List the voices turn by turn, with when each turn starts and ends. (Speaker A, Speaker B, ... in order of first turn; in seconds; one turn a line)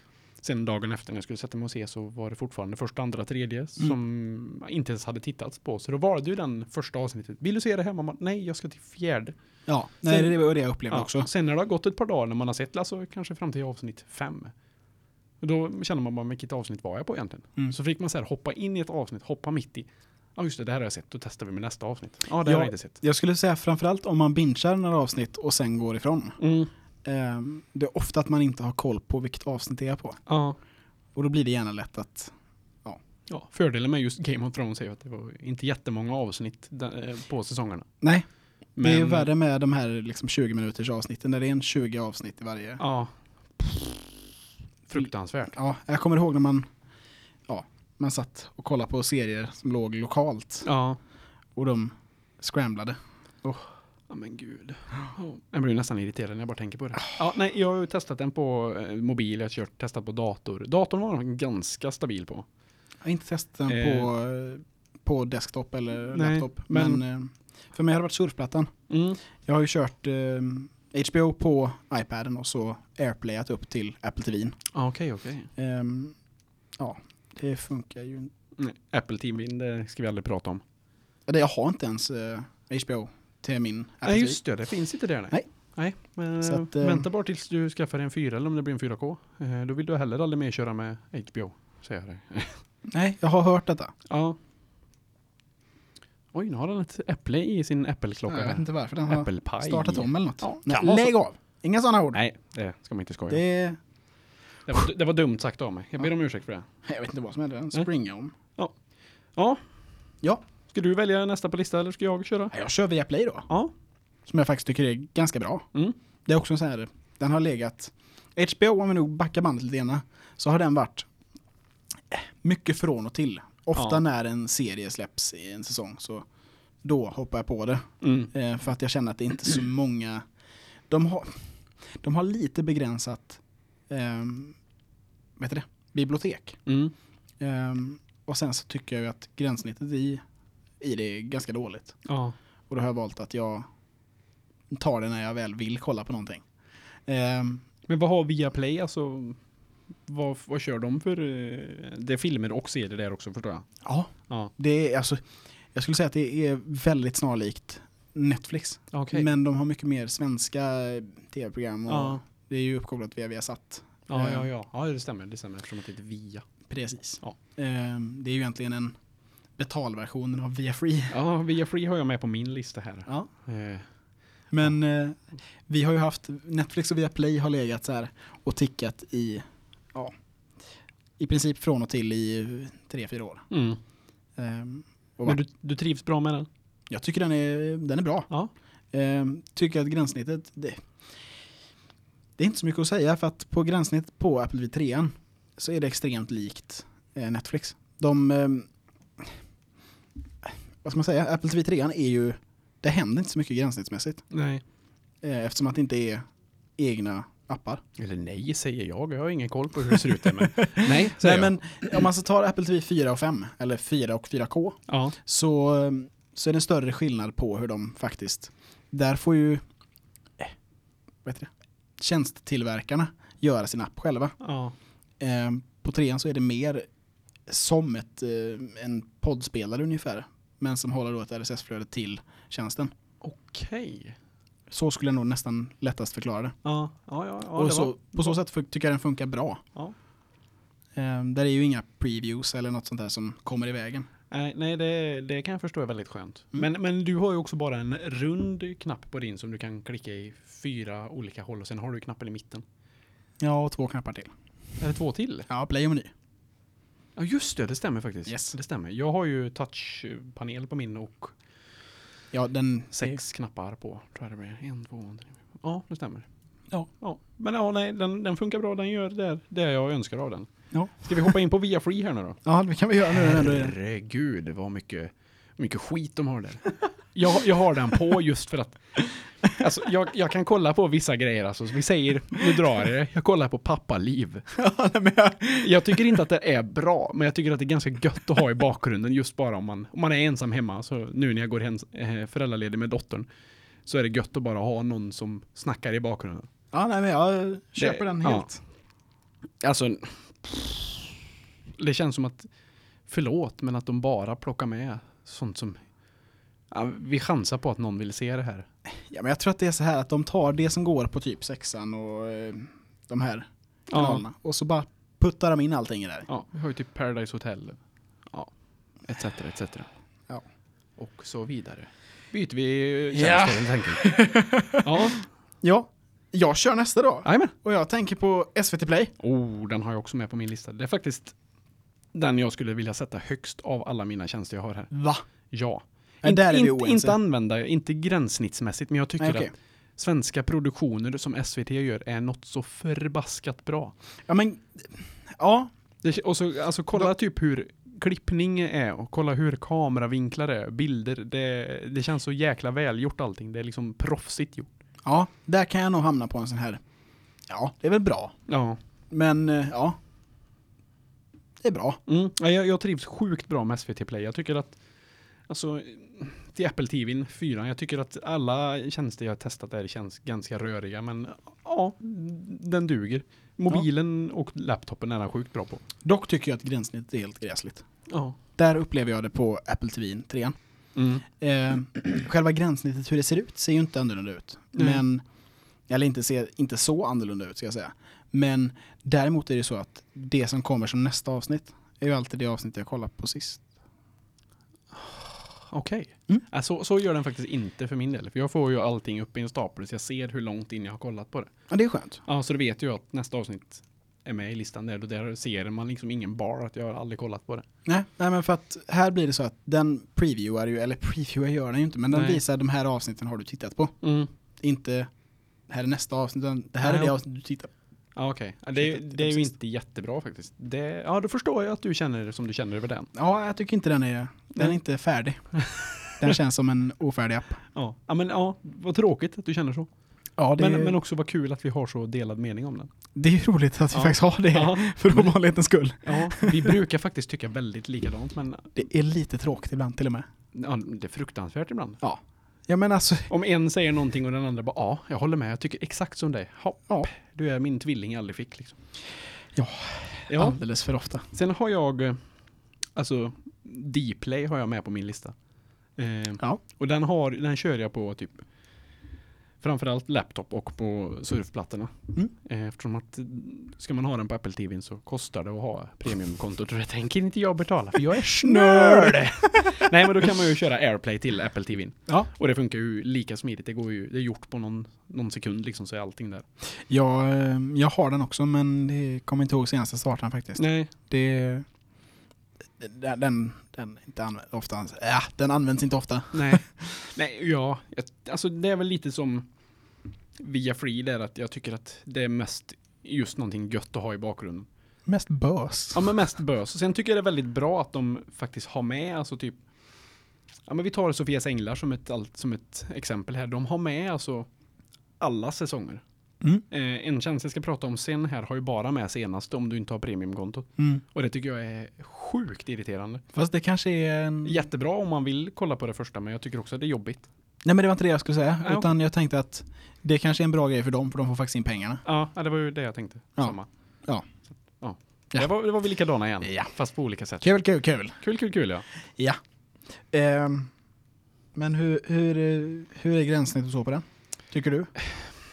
Speaker A: 0.4-9.3
Speaker B: 9.7-11.3
Speaker A: 10.1-10.3
Speaker A: 10.9-14.5
Speaker A: 15.4-23.0
Speaker B: 22.4-26.4
Speaker A: 26.4-26.7
Speaker B: 27.0-30.2
Speaker A: 30.3-30.6
Speaker B: 31.1-32.3
Speaker A: 33.3-37.9
Speaker A: 38.8-39.3
Speaker B: 38.8-42.8
Speaker A: 42.8-44.0
Speaker A: 44.9-45.5
Speaker B: 45.0-46.7
Speaker B: 47.5-50.6
Speaker A: 50.6-51.0
Speaker B: 51.5-53.6
Speaker A: 54.1-62.5
Speaker B: 63.0-68.7
Speaker A: 63.7-64.1
Speaker A: 66.1-67.0
Speaker A: 68.9-69.2
Speaker B: 69.4-74.5
Speaker A: 74.7-75.5
Speaker B: 75.6-76.2
Speaker B: 76.8-78.3
Speaker A: 78.6-80.6
Speaker B: 81.2-84.4
Speaker A: 84.0-92.6
Speaker B: 86.4-87.0
Speaker B: 92.9-93.9
Speaker A: 94.1-94.4
Speaker A: 96.3-101.1
Speaker B: 98.3-102.2
Speaker A: 102.1-103.4
Speaker B: 103.3-103.8
Speaker A: 104.7-106.7
Speaker B: 106.8-108.3
Speaker A: 110.7-112.5
Speaker B: 112.5-113.5
Speaker B: 114.3-115.7
Speaker B: 116.2-121.1
Speaker B: 122.1-126.2
Speaker A: 123.8-124.0
Speaker B: 126.8-130.2
Speaker A: 128.0-128.3
Speaker B: 130.9-131.4
Speaker B: 132.0-134.6
Speaker B: 135.4-136.6
Speaker A: 136.7-136.9
Speaker B: 137.4-140.2
Speaker B: 140.8-142.0
Speaker A: 142.1-142.3
Speaker B: 142.7-143.6
Speaker B: 144.7-146.4
Speaker B: 147.1-147.6
Speaker A: 147.9-149.4
Speaker A: 150.1-153.7
Speaker B: 153.8-155.2
Speaker B: 155.7-164.5
Speaker A: 158.9-159.3
Speaker A: 161.9-162.2
Speaker A: 164.1-166.4
Speaker B: 166.7-168.9
Speaker B: 169.6-171.1
Speaker A: 171.1-173.8
Speaker B: 174.5-179.4
Speaker B: 181.2-183.5
Speaker A: 183.5-183.8
Speaker B: 184.4-185.4
Speaker A: 185.2-186.5
Speaker B: 186.9-188.3
Speaker B: 188.9-190.8
Speaker B: 192.4-198.7
Speaker B: 200.4-204.2
Speaker A: 204.3-204.6
Speaker B: 205.2-206.2
Speaker B: 206.8-207.8
Speaker A: 208.0-211.6
Speaker B: 209.9-219.6
Speaker A: 214.9-215.2
Speaker B: 221.2-224.3
Speaker A: 224.4-224.7
Speaker B: 225.2-226.8
Speaker B: 227.5-232.9
Speaker A: 233.2-234.2
Speaker B: 234.7-236.6
Speaker A: 236.6-238.3
Speaker B: 237.5-239.6
Speaker B: 240.9-244.1
Speaker A: 244.3-252.6
Speaker B: 253.4-254.3
Speaker A: 254.8-255.5
Speaker B: 255.5-256.1
Speaker A: 257.1-261.3
Speaker B: 258.2-258.6
Speaker B: 262.3-263.2
Speaker A: 262.9-266.3
Speaker A: 267.0-272.4
Speaker B: 270.7-271.3
Speaker B: 272.4-273.7
Speaker A: 273.1-284.4
Speaker B: 284.5-286.2
Speaker A: 285.6-293.3
Speaker A: 293.9-296.5
Speaker B: 296.7-298.6
Speaker A: 297.8-298.5
Speaker A: 299.6-301.2
Speaker A: 301.8-302.5
Speaker A: 303.1-305.8
Speaker A: 306.7-308.7
Speaker B: 308.9-316.3
Speaker A: 313.9-314.2
Speaker A: 316.3-317.8
Speaker A: 319.0-319.9
Speaker A: 321.0-324.1
Speaker B: 323.1-329.1
Speaker A: 324.8-325.2
Speaker A: 327.2-327.5
Speaker A: 329.2-331.3
Speaker A: 332.1-334.9
Speaker B: 334.9-335.2
Speaker A: 335.5-343.9
Speaker B: 336.2-337.2
Speaker B: 339.2-339.5
Speaker B: 344.3-345.7
Speaker A: 346.0-354.7
Speaker B: 355.0-356.8
Speaker B: 357.5-358.3
Speaker A: 358.5-358.8
Speaker B: 359.1-360.0
Speaker B: 361.6-362.0
Speaker A: 362.1-364.8
Speaker A: 365.5-375.8
Speaker B: 376.0-377.8
Speaker A: 378.1-378.4
Speaker B: 378.6-380.6
Speaker A: 380.9-381.2
Speaker B: 381.3-385.2
Speaker A: 384.8-385.0
Speaker B: 385.9-393.6
Speaker A: 394.9-401.5
Speaker B: 401.7-402.2
Speaker A: 402.2-407.6
Speaker B: 407.9-413.9
Speaker A: 412.1-412.4
Speaker A: 414.0-414.3
Speaker B: 414.6-415.1
Speaker B: 415.7-417.7
Speaker A: 416.8-417.1
Speaker A: 418.1-423.1
Speaker B: 418.8-419.5
Speaker B: 423.1-425.4
Speaker A: 425.6-426.3
Speaker B: 426.1-427.6
Speaker A: 427.7-429.9
Speaker B: 430.4-431.0
Speaker A: 430.6-432.9
Speaker B: 433.1-436.8
Speaker A: 433.9-435.3
Speaker A: 436.0-438.7
Speaker B: 438.7-440.3
Speaker A: 440.5-442.0
Speaker B: 442.0-443.3
Speaker A: 443.3-448.8
Speaker B: 449.5-451.2
Speaker A: 450.3-450.6
Speaker A: 451.3-452.2
Speaker A: 452.9-455.3
Speaker A: 456.0-458.4
Speaker A: 459.6-476.4
Speaker B: 468.1-470.3
Speaker B: 476.8-481.6
Speaker A: 480.6-480.9
Speaker B: 482.8-486.9
Speaker A: 486.3-489.5
Speaker A: 490.4-494.7
Speaker B: 495.1-496.1
Speaker A: 495.9-499.6
Speaker A: 500.7-504.5
Speaker A: 505.2-506.0
Speaker A: 506.7-513.2
Speaker B: 513.3-514.6
Speaker A: 514.4-517.3
Speaker B: 517.6-522.0
Speaker A: 518.6-518.9
Speaker A: 522.0-523.7
Speaker B: 523.4-524.2
Speaker A: 524.8-527.5
Speaker B: 527.4-528.2
Speaker A: 528.2-528.8
Speaker B: 530.1-530.7
Speaker B: 531.5-534.9